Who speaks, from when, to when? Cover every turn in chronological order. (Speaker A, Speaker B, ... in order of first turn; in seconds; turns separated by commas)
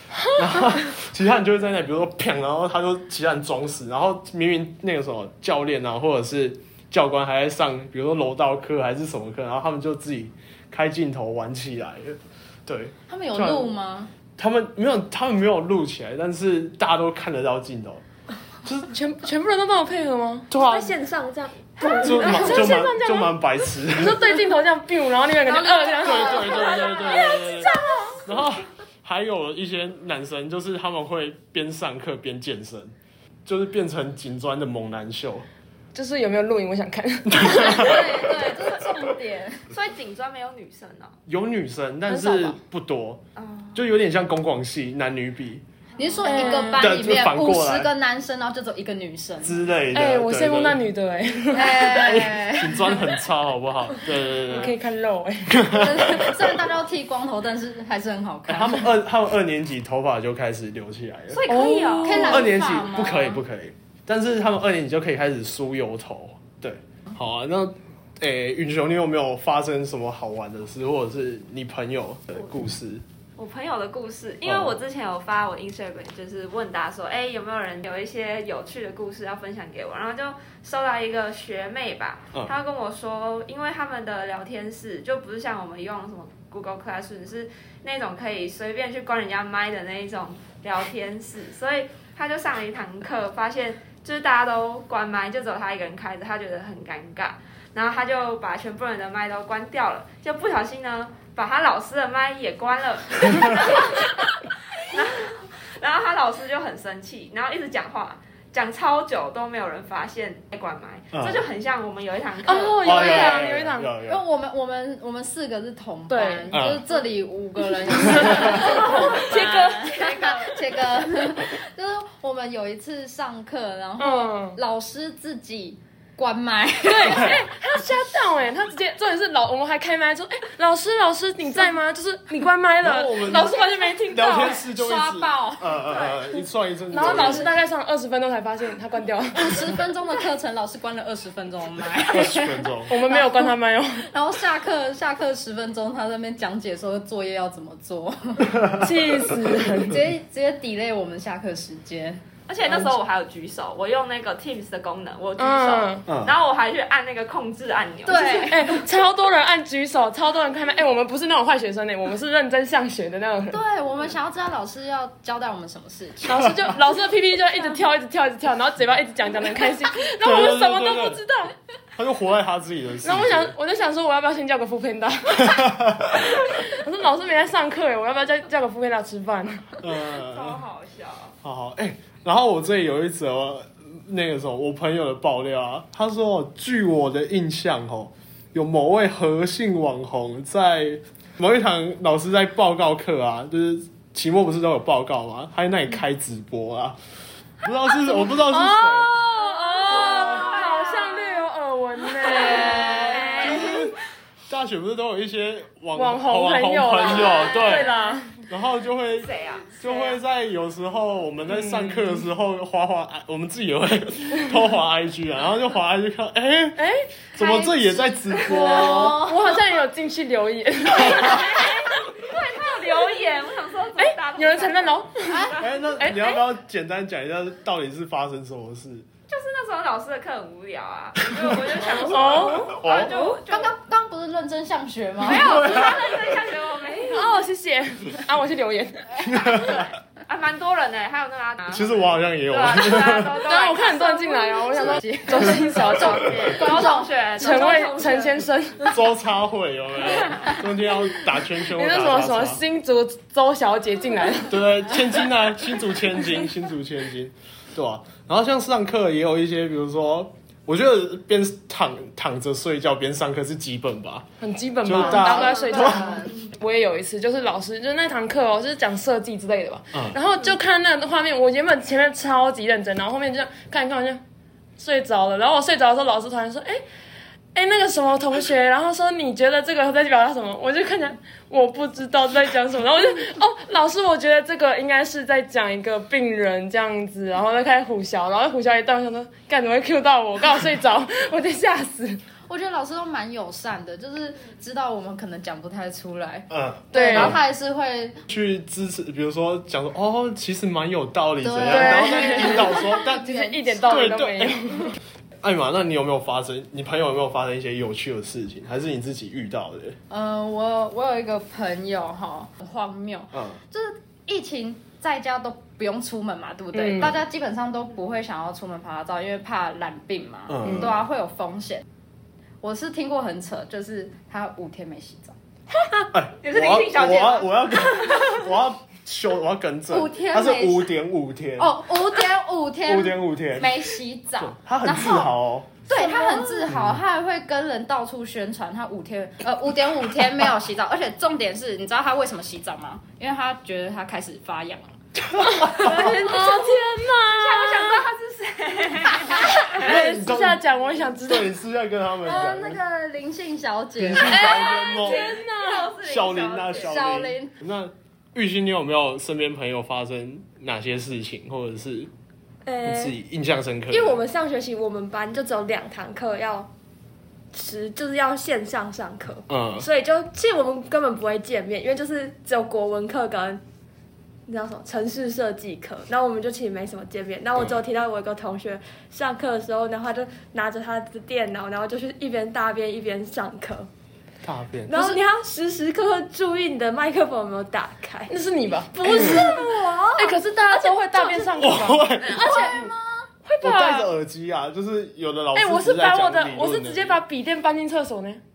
Speaker A: 0.3-13.7, Speaker B: 13.1-14.1, Speaker A: 14.4-18.0, Speaker A: 18.6-18.9, Speaker C: 18.9-20.6, Speaker A: 20.5-20.9, Speaker D: 20.6-22.5, Speaker C: 21.8-23.4, Speaker A: 22.0-24.2, Speaker C: 23.9-27.6, Speaker D: 25.9-28.2, Speaker A: 26.0-27.7, Speaker A: 28.3-32.9, Speaker A: 33.5-35.5, Speaker C: 35.9-38.1, Speaker A: 37.3-38.1, Speaker B: 37.5-39.6, Speaker E: 39.7-41.1, Speaker A: 41.3-43.2, Speaker C: 42.1-42.6, Speaker E: 43.4-43.9, Speaker A: 43.7-45.6, Speaker B: 46.0-49.6, Speaker C: 46.2-46.9, Speaker A: 46.7-47.9, Speaker A: 49.4-50.8, Speaker C: 49.9-52.1, Speaker B: 51.5-53.0, Speaker A: 51.9-54.7, Speaker C: 54.5-55.8, Speaker A: 55.6-56.7, Speaker B: 55.7-58.9, Speaker A: 58.5-61.4, Speaker E: 61.3-62.3, Speaker C: 61.5-62.4, Speaker B: 62.0-63.4, Speaker A: 62.3-73.0, Speaker E: 73.4-113.0, Speaker A: 74.5-74.7, Speaker A: 111.1-111.4, Speaker C: 112.4-113.9, Speaker A: 112.8-114.2, Speaker B: 112.9-113.5, Speaker B: 114.0-127.4, Speaker C: 116.1-116.5, Speaker A: 116.5-116.8, Speaker C: 117.9-120.0, Speaker E: 118.6-120.5, Speaker C: 124.0-124.6, Speaker C: 126.8-134.6, Speaker A: 132.8-137.5, Speaker B: 133.3-135.7, Speaker E: 135.9-136.4, Speaker C: 136.9-139.7, Speaker B: 137.1-137.5, Speaker B: 139.3-143.5, Speaker A: 142.1-142.9, Speaker C: 142.9-144.1, Speaker B: 144.1-148.6, Speaker C: 148.7-150.0, Speaker B: 149.8-152.2, Speaker E: 152.5-158.8, Speaker C: 155.4-156.1, Speaker A: 156.1-156.3, Speaker B: 158.1-158.8, Speaker C: 158.4-163.6, Speaker B: 163.5-166.5, Speaker C: 166.2-171.5, Speaker A: 170.2-171.2, Speaker A: 172.0-173.5, Speaker C: 173.0-179.8, Speaker A: 179.8-180.6, Speaker E: 180.1-181.3, Speaker A: 181.4-197.0, Speaker A: 197.6-199.2, Speaker C: 198.2-203.8, Speaker E: 199.8-201.3, Speaker E: 202.2-203.4, Speaker A: 203.2-204.0, Speaker A: 204.5-207.9, Speaker C: 205.9-208.4, Speaker E: 207.1-208.0, Speaker A: 208.5-216.8, Speaker E: 209.2-210.2, Speaker C: 211.5-212.2, Speaker C: 216.8-217.8, Speaker A: 217.3-219.2, Speaker E: 218.1-219.0, Speaker C: 218.6-221.9, Speaker E: 220.9-225.6, Speaker C: 224.0-226.4, Speaker A: 225.6-229.1, Speaker E: 229.3-233.8, Speaker C: 231.9-232.8, Speaker A: 232.7-233.1, Speaker B: 233.1-236.0, Speaker E: 235.2-237.4, Speaker C: 237.1-239.7, Speaker A: 239.3-239.7, Speaker E: 239.5-244.2, Speaker A: 241.7-243.4, Speaker C: 243.3-246.8, Speaker B: 244.4-247.1, Speaker E: 245.5-248.5, Speaker C: 247.4-249.0, Speaker A: 248.9-252.6, Speaker C: 251.7-254.6, Speaker A: 254.5-264.3, Speaker C: 264.4-274.2, Speaker A: 264.8-266.1, Speaker B: 265.1-266.4, Speaker C: 274.8-276.8, Speaker C: 277.6-292.2, Speaker B: 292.5-298.2, Speaker A: 296.5-297.4, Speaker C: 296.9-297.4, Speaker A: 298.3-304.6, Speaker B: 301.4-303.9, Speaker C: 301.6-305.0, Speaker A: 305.4-310.0, Speaker B: 310.1-321.9, Speaker A: 313.3-313.6, Speaker A: 320.5-320.9, Speaker B: 322.6-325.4, Speaker A: 326.1-331.8, Speaker E: 326.4-328.4, Speaker B: 329.9-330.9, Speaker B: 331.6-335.3, Speaker A: 332.9-333.8, Speaker A: 334.4-335.7, Speaker B: 335.9-345.0, Speaker A: 336.7-337.0, Speaker A: 345.3-346.0, Speaker C: 345.6-348.1, Speaker B: 345.8-346.1, Speaker E: 347.4-349.9, Speaker A: 349.7-350.6, Speaker C: 349.7-351.5, Speaker A: 351.1-352.8, Speaker B: 352.2-354.4, Speaker A: 354.0-355.4, Speaker C: 354.2-355.9, Speaker E: 354.4-357.0, Speaker A: 356.0-362.1, Speaker B: 356.7-357.5, Speaker D: 362.7-363.1, Speaker A: 362.9-364.2, Speaker D: 363.9-366.7, Speaker D: 367.5-373.6, Speaker A: 369.5-369.9, Speaker D: 374.5-383.9, Speaker A: 384.4-385.2, Speaker D: 384.9-388.3, Speaker C: 388.3-392.9, Speaker D: 388.9-391.8, Speaker A: 391.6-392.9, Speaker C: 393.4-394.1, Speaker A: 393.6-397.2, Speaker C: 395.5-398.4